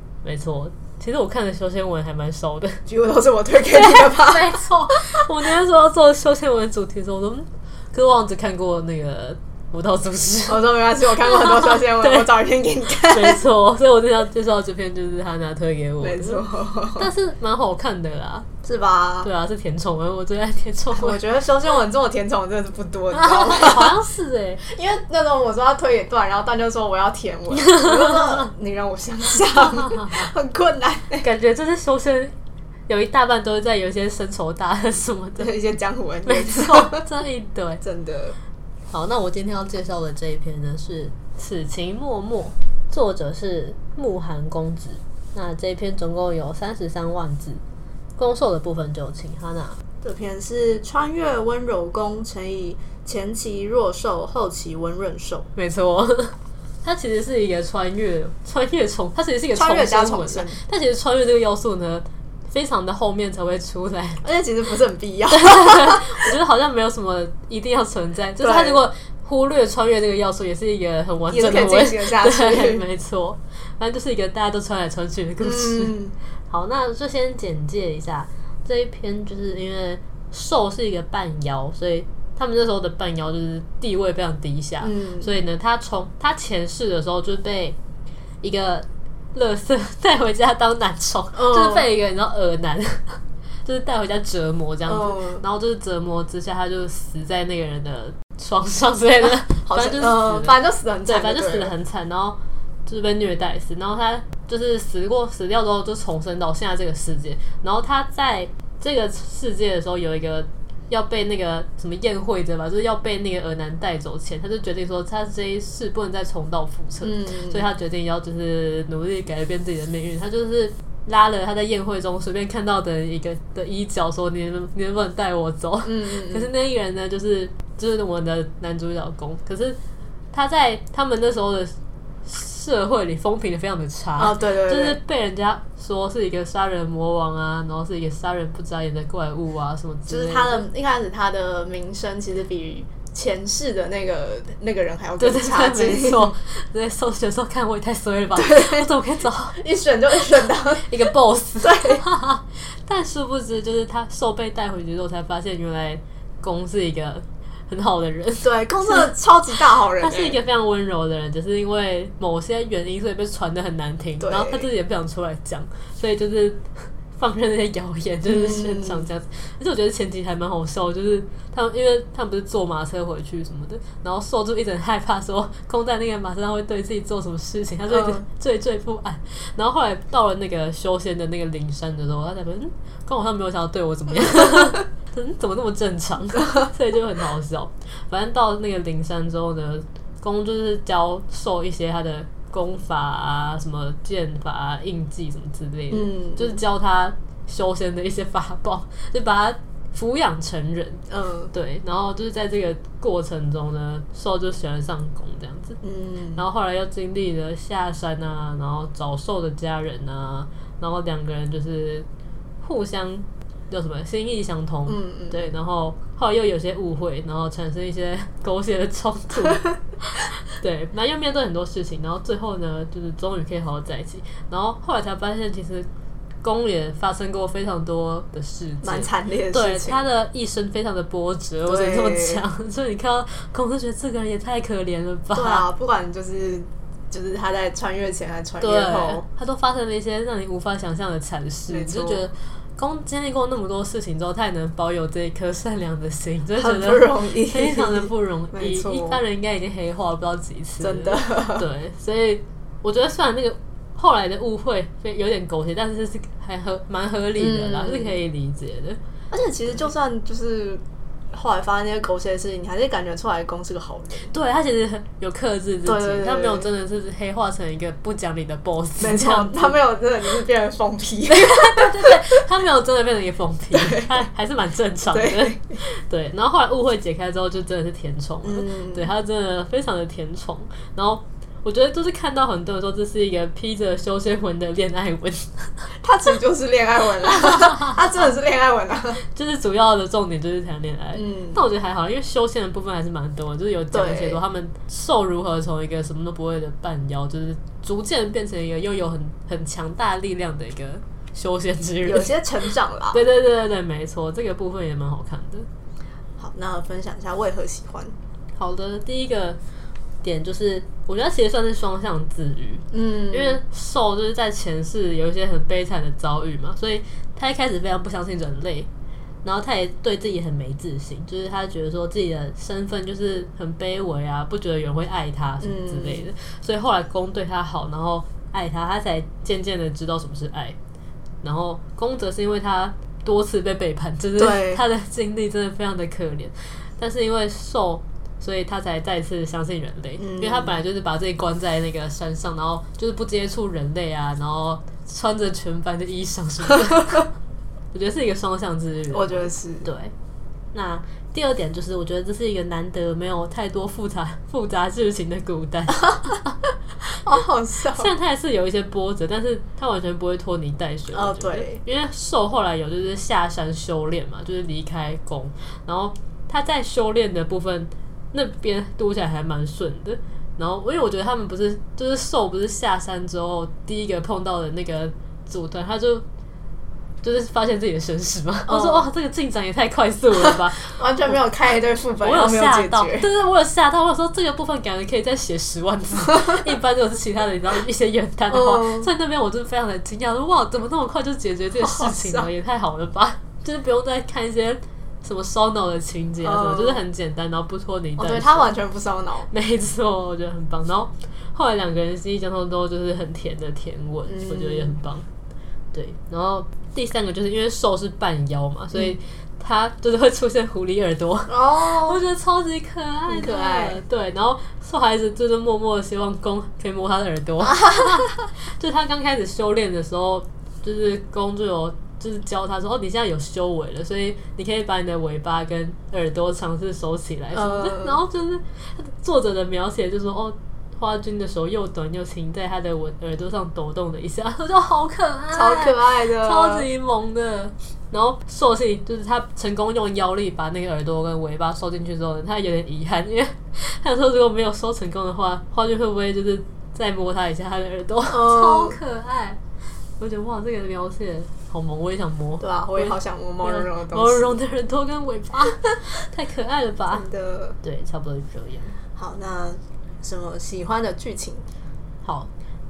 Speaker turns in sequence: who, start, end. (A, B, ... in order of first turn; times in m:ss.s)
0:00.2-0:02.8 A
0:02.9-0:05.2 B
0:03.7-0:10.6 A
0:10.5-0:13.4 B
0:11.2-0:12.3 A
0:13.0-0:16.4 A
0:16.0-0:17.1 B
0:17.0-0:18.5 A
0:18.6-0:19.3 B
0:19.2-0:21.2 A
0:20.9-0:23.9 B
0:23.1-0:24.6 A
0:24.6-0:31.2 B
0:27.7-0:28.5 A
0:29.3-0:30.3 A
0:31.2-0:32.3 A
0:32.9-0:35.5 A
0:35.4-0:37.0 B
0:36.2-0:37.8 A
0:37.8-0:38.4 B
0:38.9-0:47.6 A
0:48.2-0:49.8 A
0:50.0-0:55.5 B
0:55.6-1:04.2 A
0:59.5-1:00.6 B
1:04.2-1:06.3 B
1:05.3-1:16.0 A
1:08.4-1:08.8 B
1:11.3-1:12.8 B
1:15.4-1:16.1 B
1:16.5-1:27.8 A
1:24.8-1:25.3 B
1:28.4-2:09.8 A
1:31.3-1:31.8 B
1:34.9-1:35.4 B
1:39.2-1:41.7 B
1:57.0-1:57.6 B
2:05.8-2:06.5 B
2:10.3-2:20.6 A
2:14.2-2:15.0 B
2:20.1-2:26.3 B
2:25.2-2:29.6 A
2:28.4-2:28.9 B
2:29.6-2:30.9 B
2:30.3-3:25.8 A
2:31.6-2:32.0 B
2:38.4-2:40.4 B
2:44.2-2:44.6 B
2:48.3-2:49.0 B
2:57.9-2:58.2 B
3:15.9-3:16.6 B
3:21.1-3:21.5 B
3:25.8-3:26.4 B
3:26.4-3:32.1 A
3:32.6-3:45.9 A
3:34.9-3:35.4 B
3:39.4-3:39.8 B
3:46.4-3:55.6 A
3:48.8-3:50.0 B
3:51.7-3:52.4 B
3:55.3-3:59.2 B
3:58.6-4:19.0 A
4:01.7-4:02.2 B
4:06.6-4:09.2 B
4:10.8-4:11.7 B
4:17.4-4:18.2 B
4:19.3-4:20.8 B
4:21.3-4:24.3 B
4:24.3-4:29.8 A
4:25.8-4:26.7 B
4:29.0-4:32.2 B
4:31.3-4:45.9 A
4:33.7-4:34.2 B
4:35.1-4:35.8 B
4:38.4-4:39.1 B
4:46.0-4:49.2 B
4:47.2-4:48.0 A
4:49.2-5:02.3 A
4:51.1-4:51.6 B
4:53.9-4:54.4 B
5:02.0-5:03.2 B
5:03.1-5:05.7 A
5:06.4-5:08.1 B
5:08.6-5:09.6 A
5:10.2-5:18.9 A
5:12.9-5:13.6 B
5:19.4-5:30.8 A
5:25.6-5:26.3 B
5:31.4-5:47.3 A
5:34.4-5:34.8 B
5:40.2-5:40.8 B
5:47.9-5:50.1 A
5:49.1-5:49.9 B
5:50.7-5:56.6 A
5:57.1-5:58.1 B
5:58.0-6:16.2 A
6:01.1-6:01.8 B
6:17.2-6:21.3 A
6:18.7-6:19.1 B
6:20.9-6:23.3 B
6:22.2-6:38.7 A
6:28.5-6:29.1 B
6:31.8-6:32.5 B
6:36.4-6:37.0 B
6:38.2-6:39.5 B
6:39.5-6:45.3 A
6:44.3-6:45.0 B
6:45.9-7:29.6 A
6:51.5-6:52.2 B
6:53.3-6:54.0 B
6:57.6-6:58.5 B
7:07.5-7:08.2 B
7:15.5-7:16.9 B
7:28.3-7:29.0 B
7:30.2-7:37.3 A
7:32.6-7:34.5 B
7:37.1-7:37.8 B
7:37.8-7:39.0 A
7:39.2-7:41.6 B
7:42.2-7:42.5 A